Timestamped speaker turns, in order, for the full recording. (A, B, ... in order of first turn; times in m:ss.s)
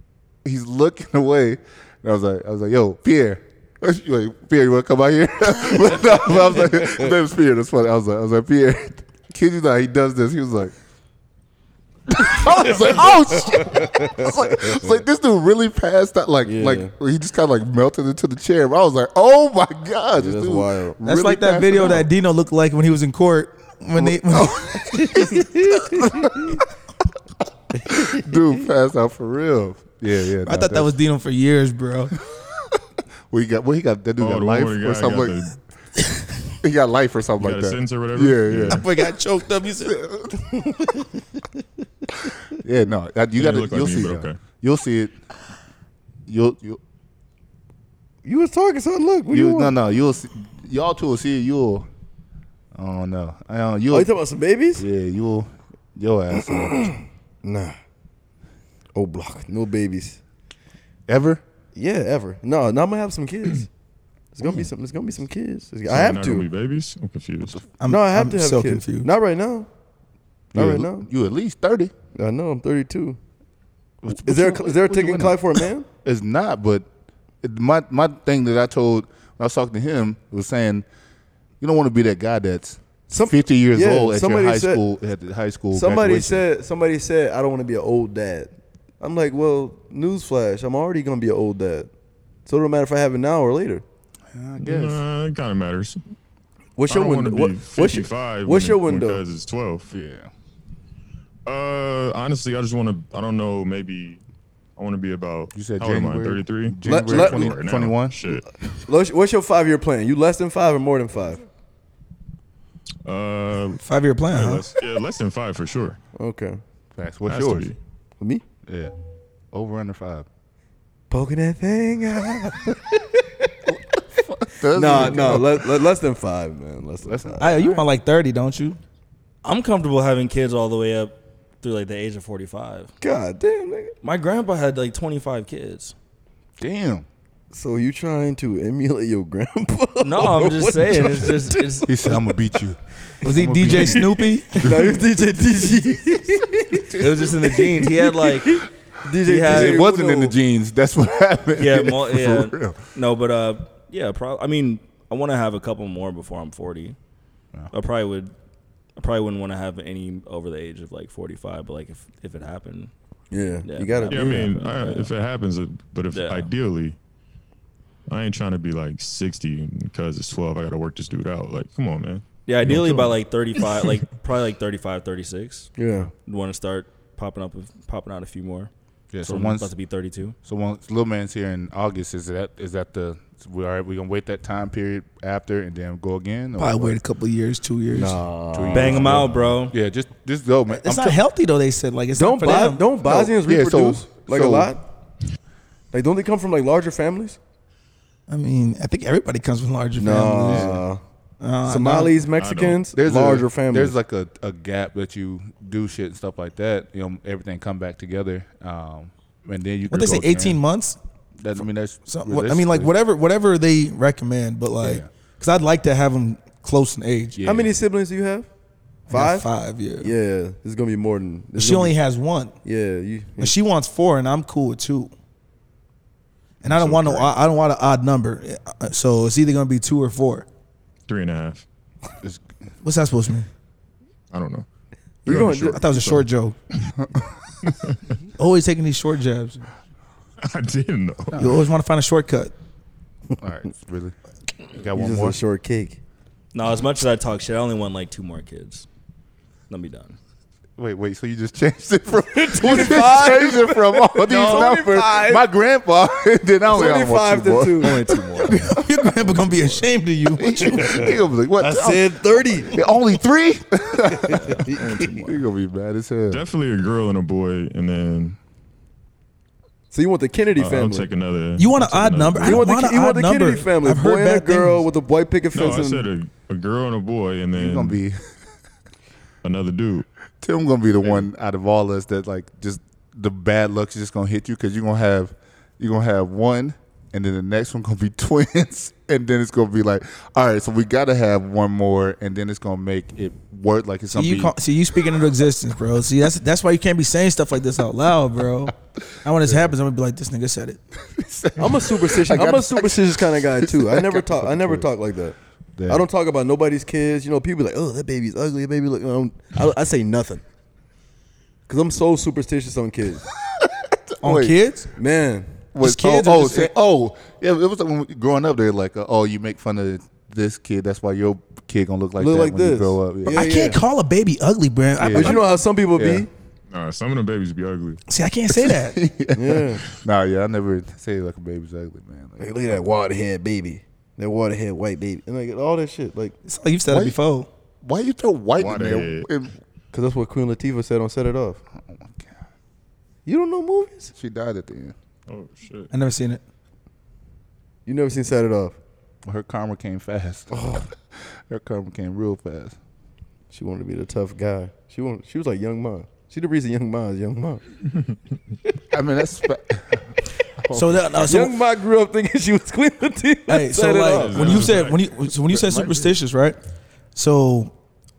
0:00.4-0:10.7 A
0:06.2-0:07.1 B
0:12.1-0:22.1 A
0:13.4-0:15.0 B
0:16.4-0:16.9 B
0:20.2-0:21.0 B
0:21.0-0:24.5 C
0:24.0-0:26.6 A
0:25.3-0:26.6 B
0:27.8-0:30.9 A
0:27.9-0:28.2 B
0:30.4-0:32.1 C
0:32.3-0:32.8 A
0:33.3-0:35.3 A
0:34.2-0:35.5 D
0:36.6-0:38.9 A
0:37.4-0:38.8 D
0:38.7-0:40.0 C
0:39.8-0:40.5 A
0:40.5-0:41.0 B
0:42.5-0:45.1 A
0:43.4-0:44.4 D
0:46.3-0:46.8 A
0:48.2-0:49.7 B
0:49.3-0:51.9 A
0:52.7-0:54.1 A
0:53.9-0:54.8 B
0:54.8-0:56.9 A
0:56.5-0:57.8 B
0:58.9-1:00.2 B
1:01.1-1:01.4 A
1:01.7-1:03.7 B
1:04.3-1:06.4 B
1:05.9-1:07.6 D
1:07.8-1:09.1 C
1:07.8-1:09.7 B
1:10.5-1:11.0 B
1:10.5-1:11.9 A
1:12.2-1:13.2 B
1:14.0-1:16.9 A
1:14.1-1:15.8 B
1:17.4-1:20.9 A
1:21.6-1:26.4 A
1:23.1-1:24.8 B
1:25.7-1:31.9 B
1:32.4-1:33.8 B
1:34.3-1:35.0 A
1:34.6-1:36.0 D
1:36.8-1:39.2 B
1:36.9-1:39.9 D
1:39.9-1:40.3 A
1:41.4-1:44.2 D
1:44.8-1:48.6 D
1:45.5-1:48.3 A
1:46.8-1:47.6 B
1:48.9-1:51.4 B
1:53.0-1:56.0 D
1:53.8-1:54.7 C
1:56.2-1:56.6 B
1:56.9-1:57.7 A
1:57.3-1:57.8 D
1:58.6-1:58.9 A
1:59.5-2:00.2 A
2:01.1-2:03.5 B
2:03.7-2:05.9 A
2:04.7-2:07.5 B
2:07.0-2:07.8 A
2:07.4-2:08.8 C
2:09.4-2:12.9 E
2:13.0-2:13.9 B
2:14.0-2:15.9 E
2:16.6-2:17.0 A
2:17.5-2:22.4 B
2:20.0-2:21.9 E
2:21.8-2:25.1 A
2:23.2-2:24.6 C
2:24.6-2:30.4 B
2:26.7-2:27.7 A
2:27.0-2:28.6 E
2:29.2-2:29.8 E
2:29.4-2:32.9 A
2:31.6-2:37.0 E
2:37.7-2:38.3 E
2:39.0-2:42.9 E
2:43.3-2:44.5 B
2:43.6-2:45.1 E
2:44.1-2:47.0 D
2:46.1-2:46.5 E
2:48.1-2:53.2 D
2:52.5-2:58.7 E
2:55.8-2:56.1 B
2:59.1-2:59.7 A
2:59.2-3:00.4 E
3:00.4-3:07.0 A
3:06.6-3:08.2 C
3:07.9-3:09.3 B
3:08.5-3:11.2 A
3:08.7-3:09.7 E
3:10.7-3:12.8 C
3:12.1-3:14.8 B
3:13.0-3:14.7 A
3:15.9-3:17.4 B
3:18.3-3:20.8 C
3:20.0-3:21.0 B
3:21.4-3:22.1 C
3:21.7-3:23.9 B
3:22.4-3:22.8 D
3:22.9-3:30.6 A
3:29.9-3:31.0 C
3:31.4-3:32.9 A
3:32.1-3:37.4 C
3:34.8-3:35.1 A
3:37.3-3:37.7 A
3:37.4-3:38.5 B
3:39.1-3:40.1 C
3:39.1-3:39.5 B
3:40.0-3:42.0 B
3:41.6-3:42.5 C
3:42.6-3:43.5 B
3:43.4-3:45.1 C
3:46.6-3:47.3 A
3:46.6-3:50.5 C
3:51.1-3:51.6 D
3:52.8-3:53.5 C
3:54.3-3:54.6 D
3:55.2-3:55.8 B
3:55.2-3:56.2 D
3:55.3-3:56.6 C
3:57.6-3:58.1 D
3:58.4-3:59.6 C
4:00.4-4:01.4 D
4:01.3-4:01.6 A
4:01.4-4:02.5 C
4:03.3-4:04.1 A
4:04.7-4:05.4 A
4:04.9-4:06.0 B
4:06.5-4:08.9 E
4:09.7-4:10.2 E
4:10.8-4:19.4 A
4:12.3-4:15.4 B
4:14.3-4:14.7 E
4:16.6-4:18.5 B
4:17.8-4:18.7 E
4:18.7-4:20.9 C
4:19.3-4:19.8 E
4:20.3-4:26.4 A
4:20.6-4:22.8 B
4:24.1-4:25.2 B
4:24.4-4:25.2 E
4:26.3-4:28.4 D
4:29.9-4:31.1 B
4:30.6-4:32.6 D
4:31.6-4:34.8 C
4:32.4-4:36.1 B
4:35.5-4:38.0 D
4:37.5-4:38.2 A
4:39.4-4:40.1 D
4:40.4-4:54.6 A
4:41.0-4:41.3 D
4:54.1-5:00.8 C
4:59.4-4:59.7 A
5:01.1-5:04.9 A
5:01.6-5:05.3 B
5:05.8-5:06.0 A
5:05.9-5:10.4 B
5:11.7-5:13.2 B
5:13.5-5:14.6 A
5:14.2-5:14.9 C
5:15.0-5:15.6 B
5:15.7-5:23.6 A
5:15.8-5:16.7 C
5:22.2-5:23.8 B
5:23.2-5:25.4 C
5:25.0-5:26.3 A
5:25.1-5:26.3 B
5:26.7-5:28.0 D
5:28.1-5:29.0 C
5:28.5-5:32.8 A
5:29.3-5:29.8 B
5:32.4-5:36.4 B
5:36.4-5:37.5 C
5:36.9-5:37.2 A
5:37.8-5:39.6 A
5:38.6-5:39.3 D
5:39.9-5:41.6 B
5:41.7-5:42.4 A
5:43.2-5:44.1 B
5:44.1-5:44.9 A
5:45.3-5:45.9 D
5:45.9-5:46.4 C
5:47.8-5:48.8 B
5:49.2-5:52.8 A
5:50.5-5:50.9 B
5:53.5-5:57.6 B
5:58.9-6:01.2 A
6:00.7-6:01.5 C
6:01.2-6:04.7 B
6:03.5-6:06.6 C
6:04.1-6:05.0 D
6:05.4-6:06.2 A
6:07.2-6:07.7 C